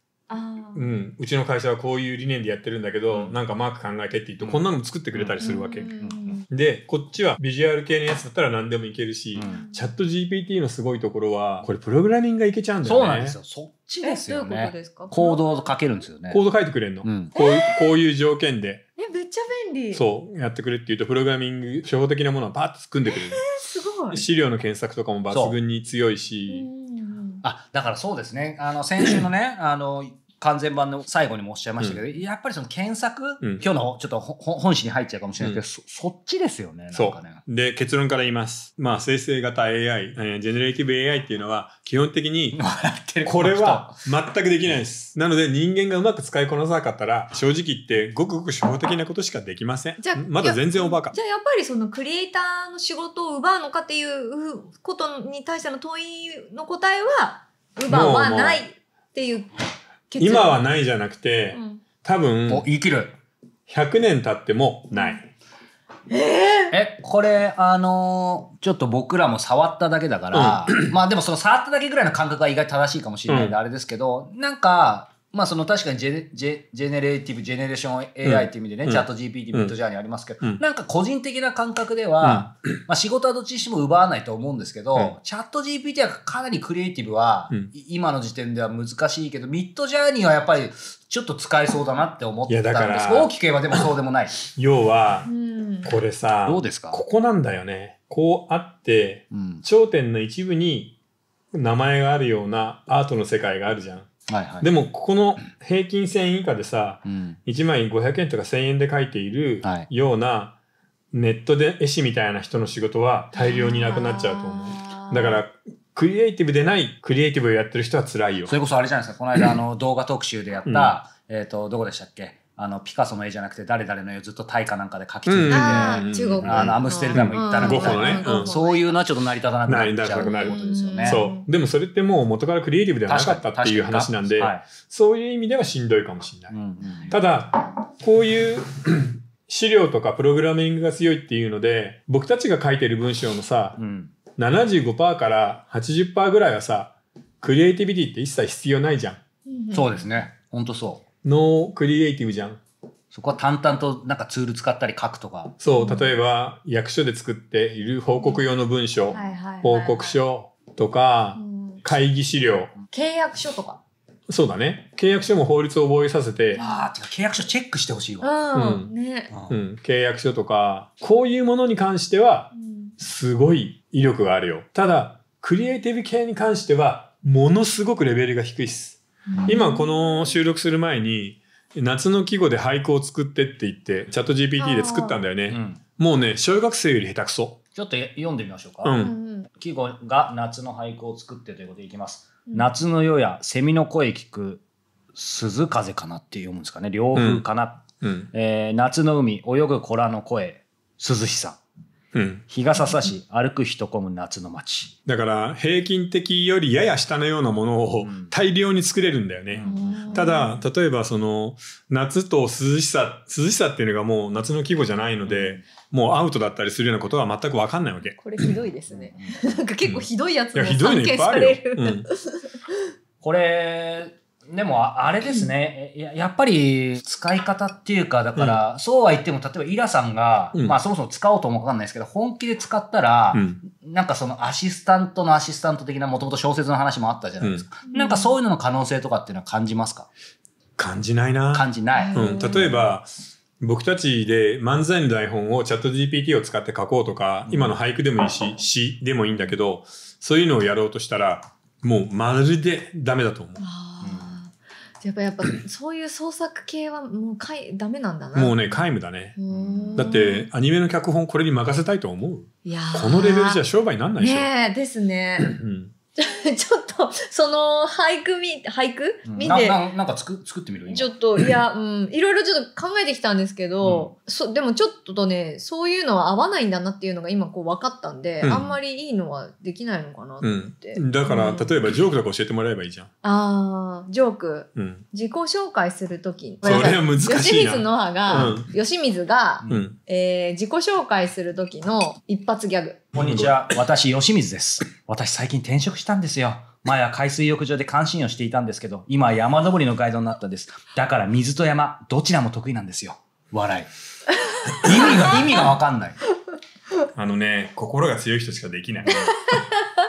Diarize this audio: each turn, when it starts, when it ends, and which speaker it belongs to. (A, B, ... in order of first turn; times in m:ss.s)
0:00.3-0:00.9 A
0:00.8-0:05.9 B
0:03.1-0:03.4 C
0:04.4-0:06.4 C
0:05.4-0:06.5 A
0:06.5-0:13.4 B
0:09.3-0:09.6 C
0:09.4-0:09.8 A
0:12.8-0:16.4 C
0:14.0-0:15.6 A
0:16.3-0:18.8 B
0:17.0-0:17.3 C
0:17.4-0:17.9 A
0:19.0-0:20.0 A
0:19.9-0:23.4 B
0:23.1-0:24.2 A
0:24.1-0:26.7 B
0:25.3-0:25.6 C
0:26.5-0:27.4 A
0:27.4-0:37.4 C
0:36.9-0:42.6 B
0:42.5-0:44.0 C
0:43.2-0:51.2 B
0:50.0-1:00.6 A
0:57.9-0:58.6 B
1:00.2-1:02.7 B
1:01.5-1:01.8 A
1:02.5-1:03.2 C
1:03.7-1:05.3 B
1:04.9-1:05.2 A
1:06.1-1:06.8 A
1:06.7-1:34.4 C
1:10.3-1:10.9 B
1:13.3-1:13.6 B
1:18.2-1:19.7 B
1:22.2-1:22.5 B
1:32.5-1:33.3 B
1:34.5-1:35.3 B
1:35.3-1:35.9 A
1:35.8-1:41.0 B
1:36.5-1:37.0 C
1:39.3-1:39.6 C
1:41.5-1:44.1 B
1:44.3-1:44.7 C
1:44.6-1:50.6 B
1:47.1-1:47.4 C
1:49.6-1:49.9 C
1:51.1-1:58.6 B
1:53.4-1:55.4 A
1:58.5-2:11.2 C
2:00.6-2:01.0 B
2:05.3-2:08.6 B
2:05.5-2:09.0 A
2:09.7-2:16.5 B
2:10.2-2:11.5 A
2:13.1-2:14.7 C
2:16.5-2:17.2 C
2:16.8-2:17.1 A
2:17.1-2:23.8 B
2:23.8-2:24.1 C
2:24.4-2:29.2 B
2:29.5-2:30.2 A
2:29.7-2:31.0 C
2:31.2-2:32.6 B
2:33.1-2:35.5 C
2:35.6-2:42.7 B
2:35.8-2:36.2 A
2:38.2-2:38.4 A
2:39.1-2:40.2 A
2:41.4-2:41.8 A
2:42.9-2:43.8 A
2:44.3-2:46.6 B
2:46.6-2:46.9 A
2:46.6-2:48.3 C
2:48.2-2:49.3 A
2:48.5-2:48.9 B
2:49.3-2:49.6 C
2:49.5-3:07.6 B
2:52.5-2:53.0 A
2:59.3-3:00.3 A
3:04.6-3:05.2 A
3:05.5-3:05.8 C
3:07.8-3:09.0 C
3:08.8-3:09.1 B
3:09.0-3:09.5 A
3:09.6-3:14.6 C
3:12.5-3:12.7 A
3:15.1-3:21.6 C
3:17.1-3:17.4 B
3:18.0-3:18.3 B
3:22.1-3:22.4 B
3:22.5-3:24.9 C
3:25.1-3:38.3 B
3:28.0-3:28.3 C
3:29.5-3:30.3 C
3:29.6-3:30.6 A
3:35.2-3:35.6 C
3:38.2-3:42.5 A
3:38.9-3:39.6 C
3:39.9-3:42.1 B
3:43.2-4:00.1 C
3:48.4-3:48.6 B
3:53.3-3:53.6 B
3:57.4-3:57.7 B
3:57.9-3:58.4 A
4:00.8-4:13.6 B
4:01.5-4:02.4 C
4:02.0-4:02.9 A
4:07.5-4:07.7 C
4:13.6-4:18.6 A
4:14.0-4:14.4 C
4:18.3-4:19.4 B
4:19.4-4:20.5 A
4:19.5-4:20.1 C
4:20.0-4:24.5 B
4:22.7-4:23.6 A
4:24.2-4:25.6 A
4:25.4-4:25.9 B
4:26.2-4:29.8 A
4:29.3-4:31.1 C
4:30.9-4:41.8 A
4:38.4-4:38.7 B
4:40.4-4:43.1 B
4:43.2-4:53.0 A
4:44.8-4:45.0 B
4:46.6-4:48.7 B
4:48.3-4:48.6 C
4:49.7-4:50.0 B
4:53.1-5:03.9 C
4:53.2-4:53.6 B
5:04.8-5:06.2 C
5:07.2-5:09.4 B